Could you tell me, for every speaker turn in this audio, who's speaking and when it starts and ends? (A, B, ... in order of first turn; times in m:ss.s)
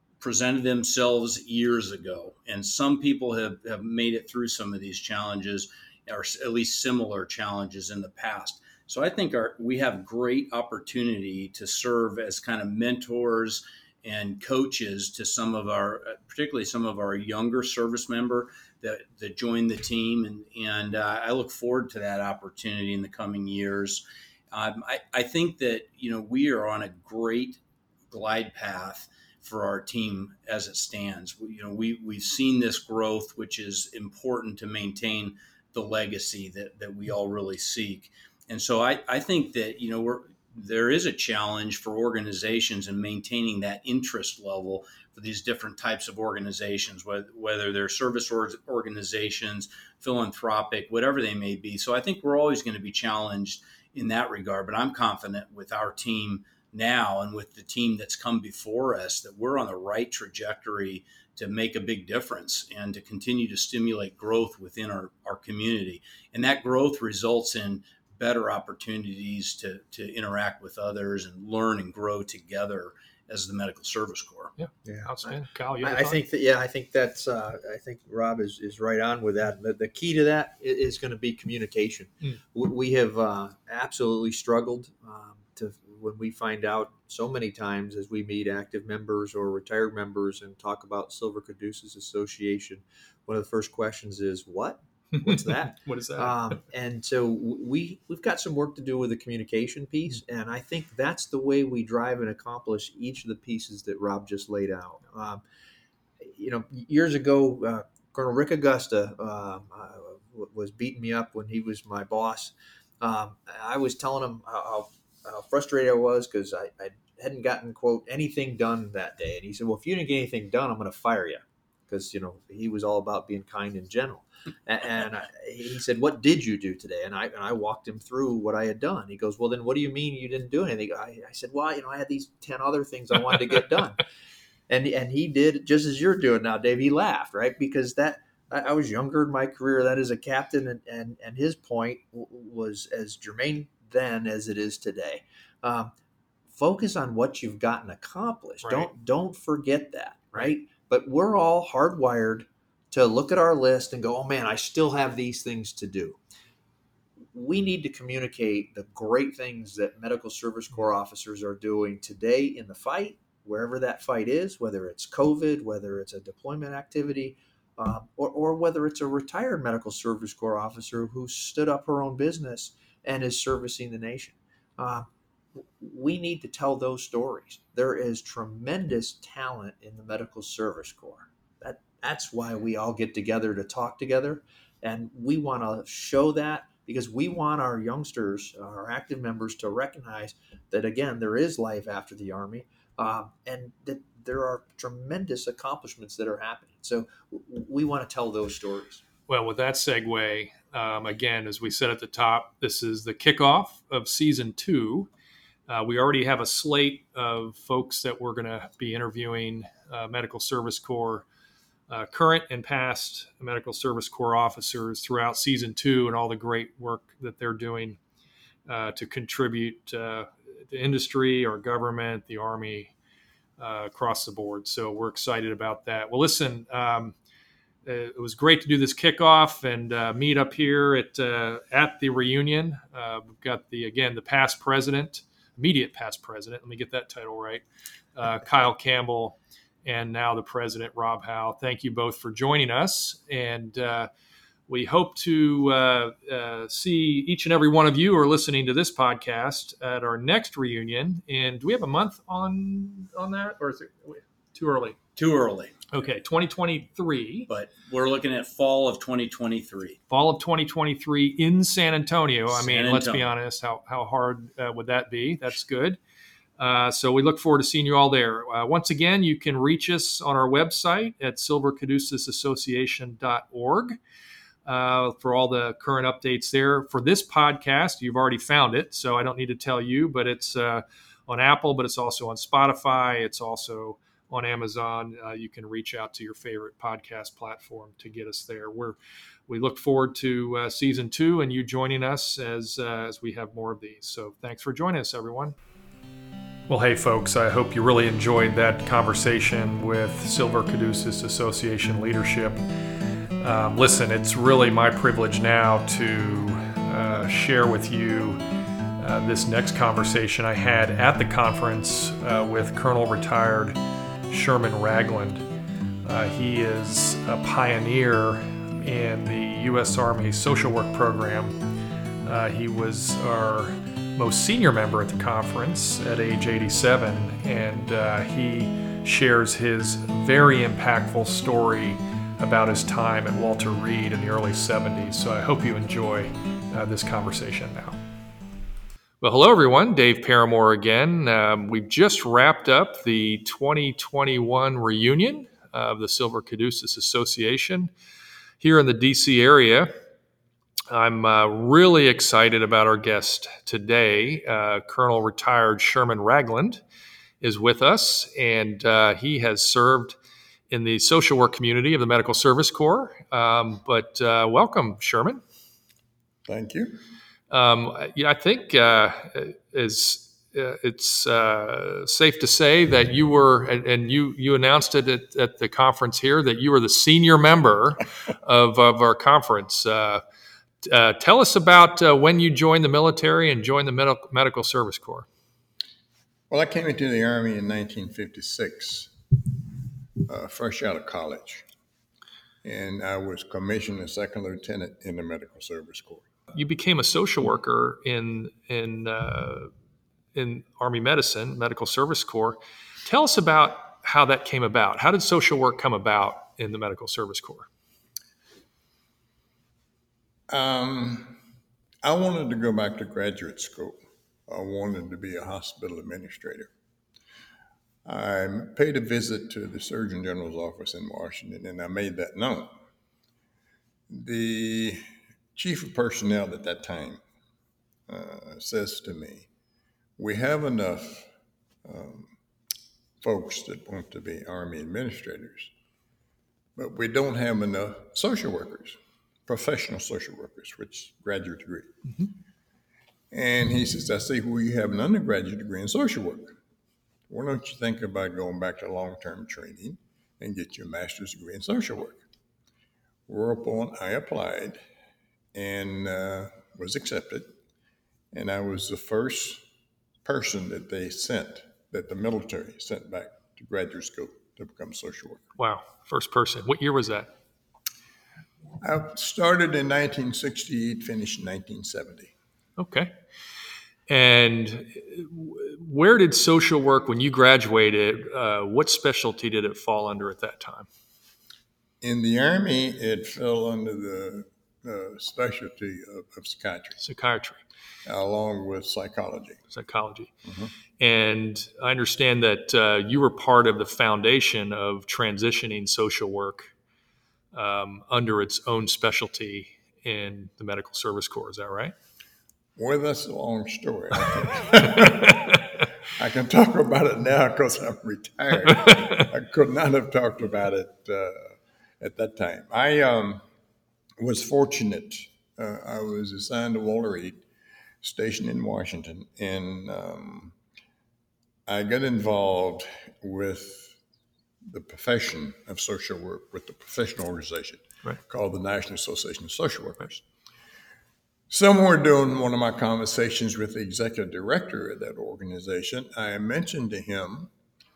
0:00.2-1:14.5 A
1:14.6-1:16.2 B
1:14.8-1:45.4 C
1:35.1-1:36.6 B
1:46.2-2:14.0 C
2:14.7-2:25.9 C
2:26.5-2:36.2 C
2:28.6-2:28.9 B
2:37.3-2:55.1 C
2:55.6-3:19.0 C
3:19.3-3:25.1 B
3:25.7-3:31.2 B
3:31.9-3:38.0 B
3:38.7-3:42.9 B
3:43.6-3:47.1 B
3:47.8-3:57.6 B
3:58.2-4:04.1 B
4:04.7-4:15.0 B
4:15.2-4:15.8 A
4:15.9-4:17.5 B
4:17.5-4:20.0 A
4:20.1-4:26.0 B
4:22.5-4:23.3 A
4:26.6-4:34.0 B
4:34.6-4:55.5 B
4:56.7-5:02.6 B
5:03.4-5:08.4 B
5:09.0-5:13.8 B
5:14.3-5:15.4 B
5:16.0-5:21.6 B
5:22.2-5:38.0 B
5:39.2-5:47.9 B
5:48.6-5:49.9 B
5:50.9-5:56.8 B
5:57.4-6:00.2 B
6:00.7-6:05.4 B
6:06.5-6:07.0 D
6:07.5-6:20.2 B
6:20.8-6:25.2 B
6:26.5-6:29.1 D
6:30.3-6:31.6 D
6:32.6-6:36.2 D
6:36.5-6:39.7 B
6:40.3-6:47.7 B
6:50.5-6:51.4 D
6:52.0-6:56.7 D
6:58.0-7:02.7 D
7:04.1-7:05.0 D
7:05.5-7:07.2 D
7:08.1-7:09.5 D
7:10.2-7:11.3 D
7:11.8-7:12.3 D
7:13.2-7:15.7 D
7:16.8-7:21.9 D
7:23.3-7:26.6 D
7:27.3-7:32.2 D
7:33.3-7:34.8 D
7:35.5-7:37.5 D
7:38.3-7:39.6 D
7:40.2-7:45.4 D
7:45.6-7:47.3 B
7:48.8-7:52.3 D
7:52.8-7:53.1 B
7:54.1-8:00.9 B
8:02.0-8:07.0 D
8:07.0-8:07.6 B
8:08.0-8:09.6 D
8:09.7-8:10.3 B
8:10.4-8:10.7 D
8:11.0-8:16.7 B
8:17.5-8:21.9 B
8:22.8-8:33.4 D
8:28.8-8:29.2 B
8:34.2-8:37.4 D
8:38.0-8:40.5 D
8:41.7-8:44.0 D
8:44.7-8:50.2 D
8:51.5-8:57.5 D